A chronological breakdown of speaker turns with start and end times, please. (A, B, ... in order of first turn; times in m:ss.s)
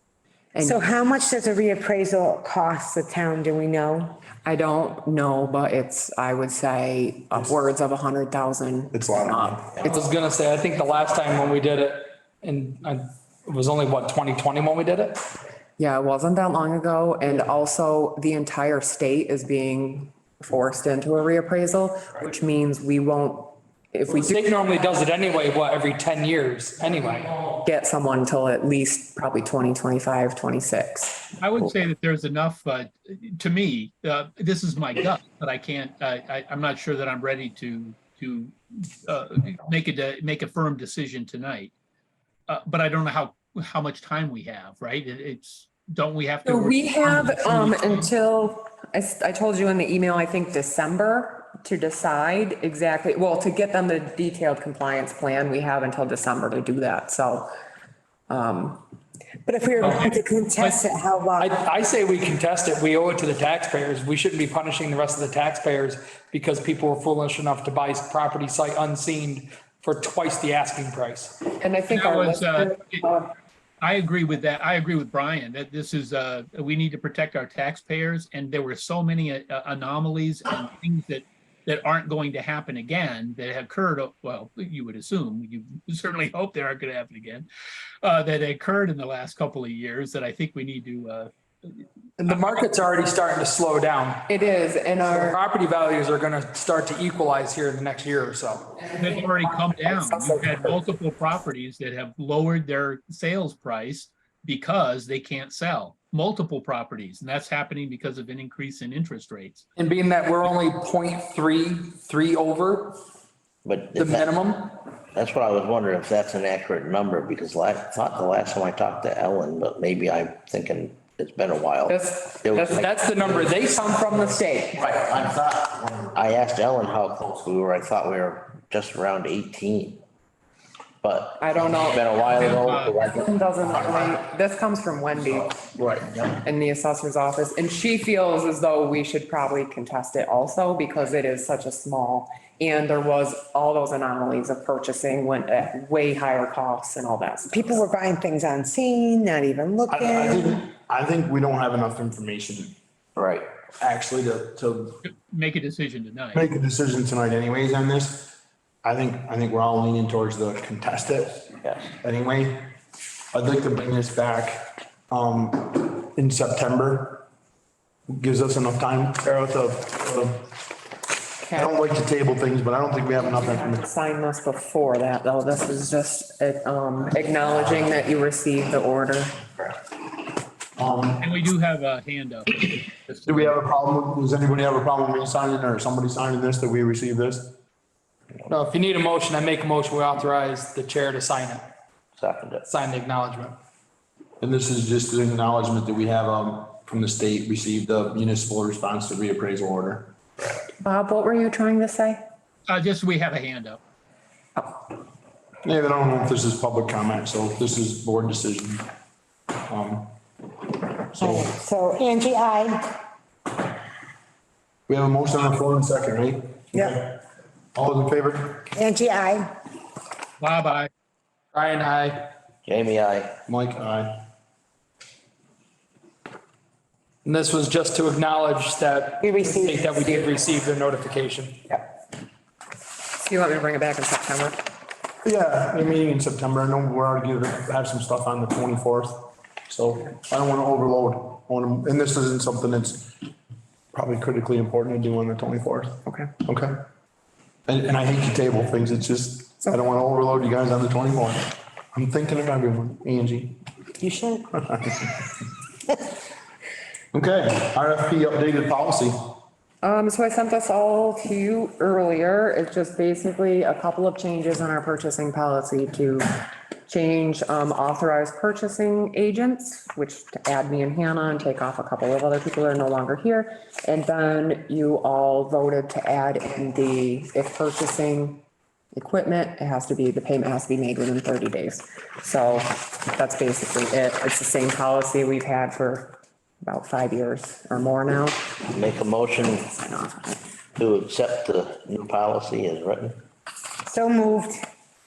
0:00.5-0:00.8 A
0:00.6-0:04.2 B
0:04.4-0:10.0 A
0:08.9-0:09.7 C
0:09.8-0:15.2 D
0:15.8-0:24.5 A
0:24.1-0:27.4 D
0:27.6-0:31.4 A
0:31.4-0:41.7 E
0:42.5-0:48.1 E
0:46.5-0:57.5 A
0:58.3-0:58.8 A
0:59.5-1:01.6 B
0:59.8-1:00.1 D
1:00.6-1:00.8 E
1:01.4-1:11.4 D
1:11.6-1:13.3 A
1:11.9-1:13.0 E
1:13.8-1:27.5 E
1:28.0-1:32.5 E
1:32.2-1:34.3 D
1:34.3-1:35.4 A
1:35.0-1:38.8 D
1:38.8-1:40.8 A
1:39.0-1:49.7 E
1:49.8-1:53.0 D
1:53.6-1:54.3 F
1:54.0-1:54.7 D
1:55.1-2:03.5 F
2:01.9-2:02.9 A
2:02.7-2:04.3 D
2:03.5-2:05.0 A
2:04.9-2:10.0 F
2:11.0-2:13.3 F
2:11.4-2:12.3 A
2:12.3-2:13.0 E
2:13.0-2:15.8 A
2:15.8-2:16.2 C
2:16.3-2:27.8 A
2:27.5-2:30.6 B
2:29.9-2:32.8 C
2:33.2-2:33.5 F
2:33.8-2:35.0 C
2:35.0-2:36.5 E
2:36.3-2:42.7 C
2:41.6-2:41.9 F
2:43.3-2:47.3 C
2:48.1-2:50.5 C
2:51.4-2:51.8 A
2:51.5-2:53.8 C
2:53.2-2:59.5 A
3:00.8-3:01.3 C
3:01.2-3:03.6 E
3:03.3-3:07.6 C
3:08.5-3:11.7 D
3:12.2-3:12.7 F
3:12.7-3:13.6 D
3:14.4-3:20.1 C
3:20.8-3:22.2 A
3:22.7-3:23.8 E
3:25.6-3:28.9 C
3:29.7-3:30.1 C
3:31.2-3:33.0 B
3:31.2-3:31.5 C
3:34.9-3:37.2 C
3:37.8-3:38.7 C
3:38.7-3:39.5 B
3:40.4-3:40.9 E
3:41.5-3:42.3 D
3:42.6-3:43.4 F
3:43.5-3:44.2 C
3:47.2-3:51.6 D
3:49.2-3:50.0 B
3:53.1-3:54.6 A
3:55.2-4:03.1 C
4:03.9-4:06.8 C
4:07.7-4:13.6 C
4:14.0-4:14.5 B
4:14.5-4:15.3 C
4:17.1-4:19.4 C
4:19.8-4:38.4 A
4:38.9-4:48.6 A
4:48.7-4:49.7 F
4:49.5-4:50.4 A
4:50.8-4:53.2 F
4:53.8-4:54.6 B